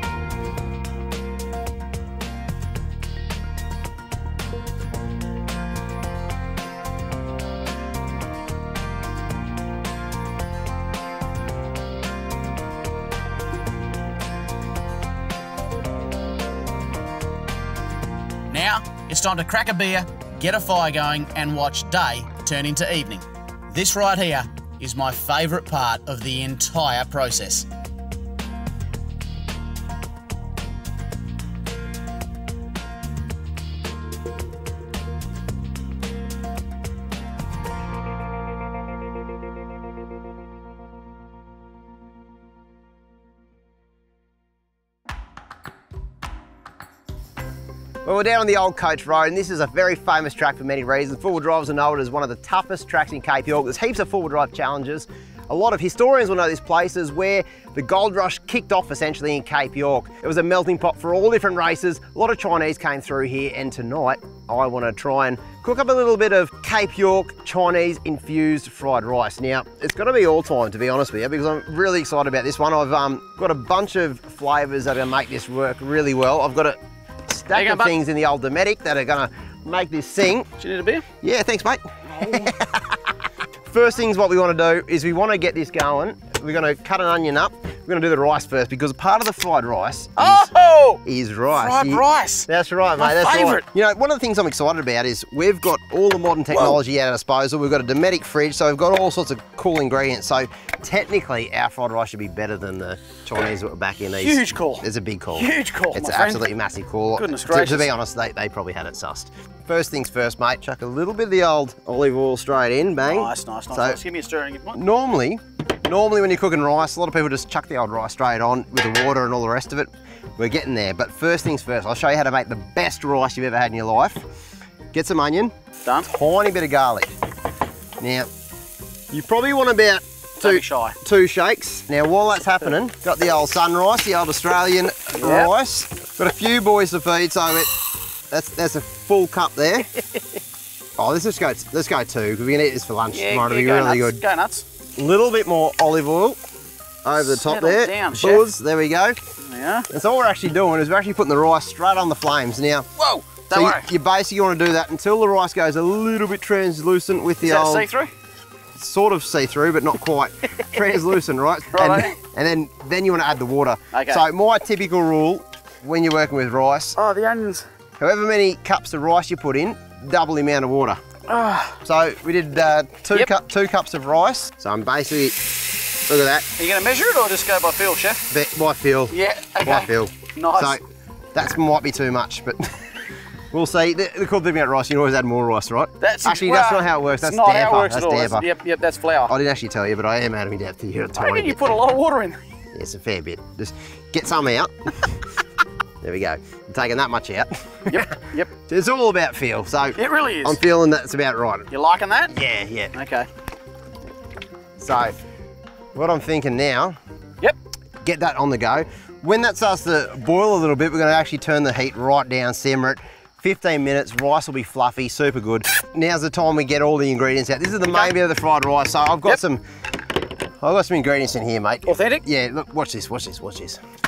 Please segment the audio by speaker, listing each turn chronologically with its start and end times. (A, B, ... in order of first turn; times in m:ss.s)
0:18.5-0:27.7 A
0:48.0-1:20.5 B
1:17.5-1:17.9 C
1:20.6-1:21.0 C
1:21.2-1:23.2 B
1:22.2-1:22.5 C
1:23.7-1:30.5 B
1:30.2-1:31.0 C
1:31.0-1:54.0 B
1:31.5-1:32.5 C
1:33.0-1:33.6 C
1:36.5-1:36.8 C
1:44.1-1:46.4 C
1:47.2-1:47.9 C
1:53.0-1:54.8 C
1:54.7-2:04.2 B
2:04.9-2:07.1 B
2:08.0-2:08.3 B
2:09.1-2:19.9 B
2:10.4-2:10.9 C
2:15.1-2:15.5 C
2:21.0-2:24.2 B
2:23.1-2:24.6 C
2:25.0-2:26.4 B
2:27.0-2:29.2 B
2:27.2-2:28.5 C
2:29.4-2:29.9 C
2:29.9-2:32.9 B
2:33.0-2:33.8 C
2:33.5-2:37.9 B
2:37.4-2:38.1 C
2:38.7-2:47.0 B
2:41.7-2:42.1 C
2:43.9-2:44.2 C
2:47.0-2:47.6 C
2:48.0-2:51.0 B
2:51.3-2:51.8 C
2:51.8-2:56.4 B
2:56.6-2:58.2 C
2:58.3-3:00.8 B
2:59.1-3:00.8 C
3:01.3-3:02.8 B
3:03.5-3:08.5 B
3:06.0-3:09.3 C
3:09.3-3:11.8 B
3:11.2-3:12.4 C
3:12.7-3:15.2 B
3:16.0-3:21.7 B
3:17.9-3:18.5 C
3:20.0-3:20.6 C
3:21.7-3:22.3 C
3:22.3-3:22.9 B
3:22.9-3:23.3 C
3:24.8-3:25.1 B
3:25.9-3:27.0 B
3:28.0-3:39.6 B
3:40.6-3:43.8 B
3:41.9-3:42.2 C